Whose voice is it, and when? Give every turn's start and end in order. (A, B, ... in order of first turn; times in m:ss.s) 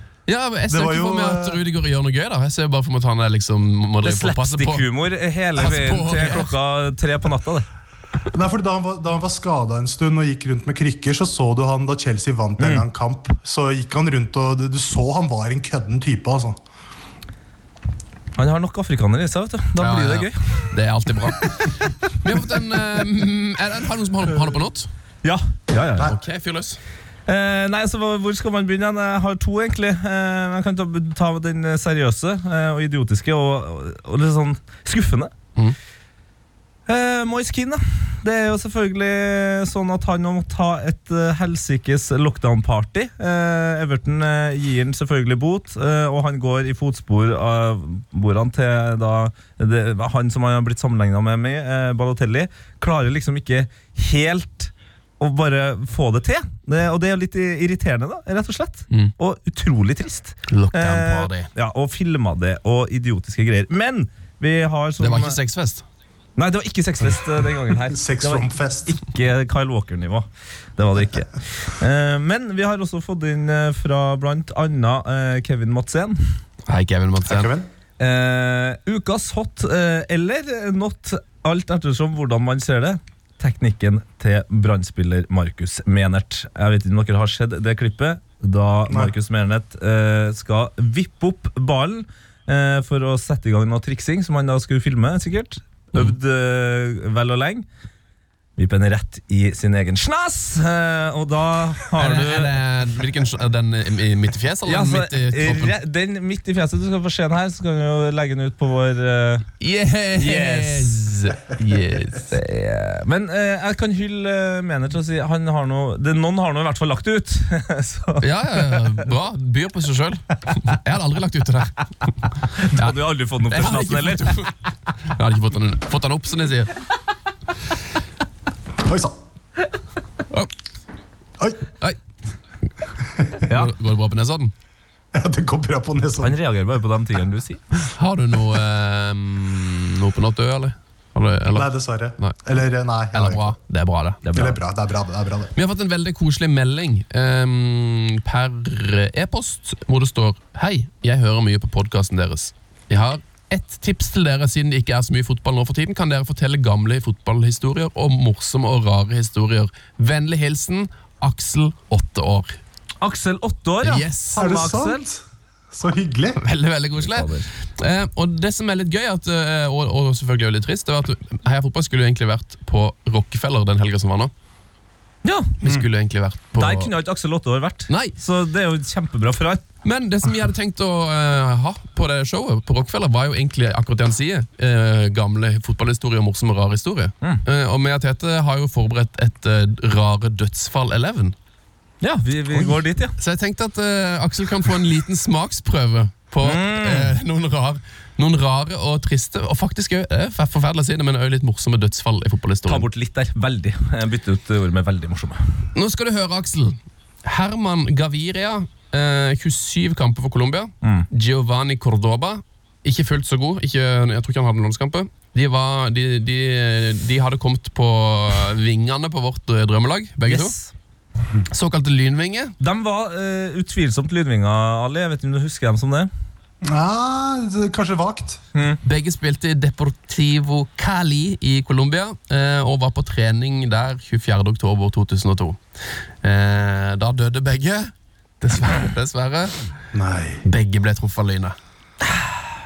0:00.3-0:04.9 A
0:00.7-0:01.6 B
0:04.0-0:07.7 C
0:05.6-0:06.5 A
0:08.3-0:16.6 B
0:12.6-0:12.8 C
0:18.4-0:20.7 C
0:19.8-0:24.9 A
0:25.2-0:26.1 C
0:26.0-0:26.8 A
0:27.3-0:35.3 C
0:36.9-1:05.4 C
1:00.5-1:01.5 A
1:05.0-1:05.8 A
1:06.4-1:10.3 C
1:07.9-1:09.0 B
1:10.8-1:16.2 C
1:16.7-1:17.5 A
1:17.2-1:17.7 B
1:18.0-1:37.6 C
1:28.9-1:29.1 B
1:38.6-1:42.5 C
1:42.0-1:45.8 A
1:44.7-1:49.5 C
1:49.6-1:52.3 A
1:50.2-1:51.0 C
1:52.3-1:59.0 C
1:58.2-2:02.1 A
2:02.6-2:04.4 C
2:02.6-2:03.0 A
2:03.5-2:04.5 A
2:05.1-2:06.7 A
2:08.8-2:09.1 B
2:13.2-2:13.4 B
2:13.5-2:14.5 A
2:15.1-2:16.4 B
2:16.2-2:17.6 C
2:18.0-2:22.4 A
2:21.5-2:23.5 B
2:23.1-2:24.2 A
2:24.2-2:24.6 C
2:24.4-2:25.5 B
2:25.5-2:42.6 A
2:43.0-2:45.0 C
2:43.8-2:44.6 A
2:44.4-2:46.4 B
2:46.4-2:54.3 A
2:47.0-2:47.5 C
2:55.2-2:55.6 C
2:55.6-2:56.9 A
2:56.6-2:59.7 C
2:57.9-2:58.2 A
2:59.8-3:11.4 A
3:12.0-3:13.1 C
3:12.5-3:22.9 A
3:16.4-3:17.1 C
3:22.7-3:25.4 C
3:25.8-3:40.5 A
3:40.3-3:40.7 C
3:41.5-3:42.6 A
3:42.6-3:46.1 C
3:46.6-3:48.4 B
3:48.8-3:55.6 A
3:56.2-3:59.5 A
3:59.9-4:00.4 B
4:00.4-4:01.6 A